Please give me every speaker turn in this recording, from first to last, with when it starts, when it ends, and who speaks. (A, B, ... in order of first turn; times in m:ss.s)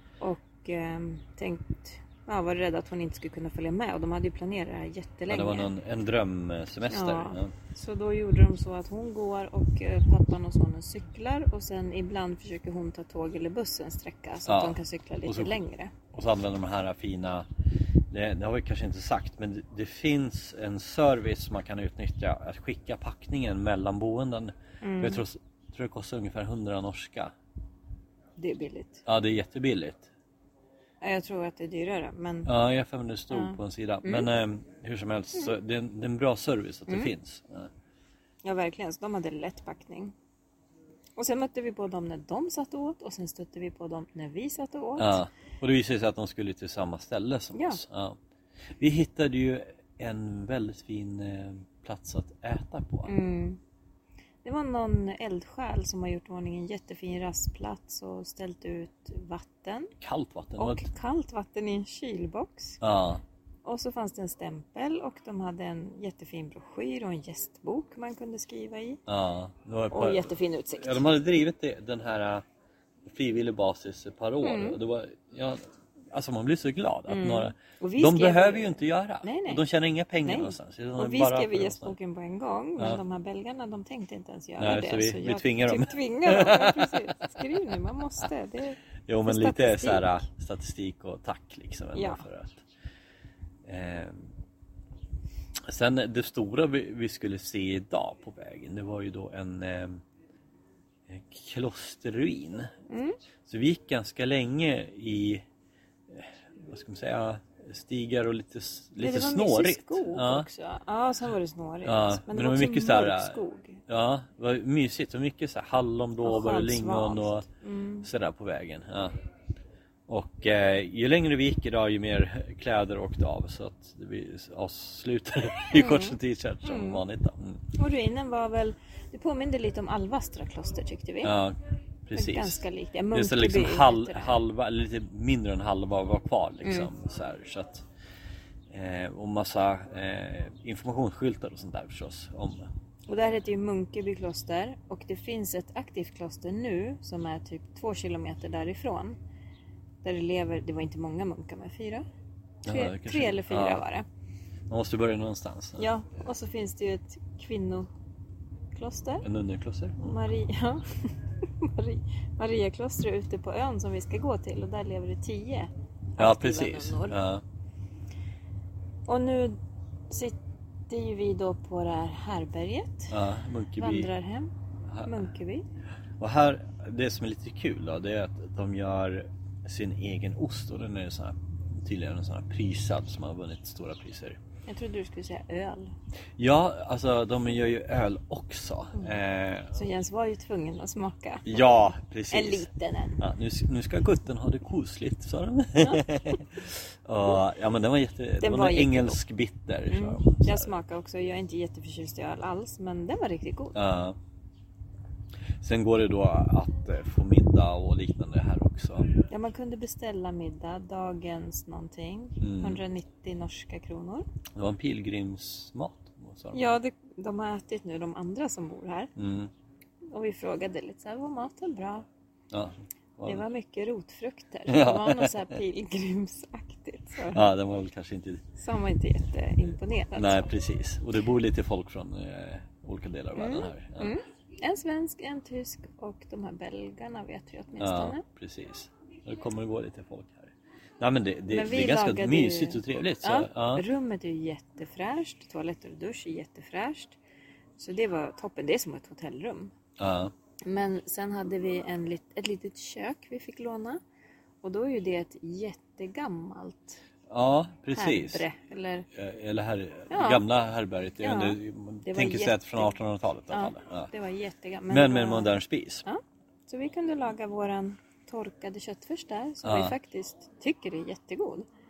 0:00.2-0:05.7 A
0:05.3-0:07.5 B
0:06.9-0:15.9 A
0:14.4-0:15.5 B
0:16.1-0:17.4 B
0:18.1-0:27.3 B
0:24.8-0:25.2 A
0:28.4-0:29.0 A
0:29.0-0:30.1 B
0:31.0-0:32.5 A
0:32.4-0:37.7 B
0:33.3-0:34.3 A
0:36.9-0:37.1 A
0:38.4-0:40.1 A
0:41.2-0:45.2 A
0:45.0-0:48.2 B
0:47.5-0:47.8 A
0:48.8-0:53.1 B
0:53.0-0:53.6 A
0:54.4-0:59.9 A
1:00.0-1:00.9 B
1:00.6-1:02.8 A
1:02.8-1:03.2 B
1:03.6-1:09.0 A
1:09.1-1:12.4 B
1:09.9-1:11.0 A
1:13.0-1:21.9 B
1:14.4-1:14.8 A
1:17.1-1:19.6 A
1:20.2-1:30.2 A
1:24.6-1:27.2 B
1:29.1-1:32.6 B
1:31.9-1:32.2 A
1:33.6-1:34.3 B
1:35.6-1:40.0 B
1:41.1-1:42.7 B
1:42.9-1:43.2 A
1:43.4-1:45.4 B
1:46.1-1:50.5 B
1:49.0-1:53.8 A
1:51.8-1:57.4 B
1:56.2-1:58.1 A
1:58.0-1:59.1 B
2:00.1-2:07.6 B
2:05.7-2:07.0 A
2:07.8-2:11.4 A
2:11.2-2:17.8 B
2:12.1-2:14.4 A
2:16.6-2:16.9 A
2:18.7-2:22.7 B
2:23.1-2:29.2 A
2:30.0-2:32.0 A
2:32.6-2:33.8 B
2:32.6-2:34.0 A
2:34.7-2:35.9 B
2:35.8-2:37.9 A
2:38.7-2:39.2 A
2:39.2-2:40.2 B
2:40.0-2:40.8 A
2:41.6-2:47.2 A
2:46.2-2:47.4 B
2:49.1-2:49.6 A
2:50.1-2:50.4 A
2:50.9-2:53.1 A
2:53.1-2:54.1 B
2:53.8-2:54.5 A
2:55.0-2:55.6 A
2:56.2-3:04.4 B
3:04.7-3:05.9 A
3:06.4-3:09.7 B
3:09.7-3:13.2 A
3:11.4-3:12.7 B
3:13.2-3:20.7 B
3:15.8-3:16.4 A
3:18.4-3:19.2 A
3:19.9-3:23.8 A
3:23.7-3:24.2 B
3:25.6-3:29.1 B
3:29.3-3:34.2 A
3:32.4-3:32.8 B
3:34.6-3:36.8 B
3:36.5-3:39.1 A
3:39.2-3:39.5 B
3:40.1-3:42.0 A
3:42.5-3:43.4 B
3:43.2-3:47.4 A
3:44.7-3:45.4 B
3:47.3-3:48.4 B
3:48.6-3:50.5 A
3:50.1-3:54.2 B
3:53.3-3:58.2 A
3:57.8-4:03.8 B
4:01.5-4:07.2 A
4:07.8-4:09.7 A
4:10.0-4:10.3 B
4:10.7-4:14.0 A
4:14.6-4:17.0 A
4:17.3-4:18.4 B
4:17.9-4:19.0 A
4:19.1-4:24.1 B
4:20.1-4:20.4 A
4:21.2-4:22.9 A
4:23.5-4:31.7 A
4:24.9-4:26.0 B
4:29.6-4:30.0 B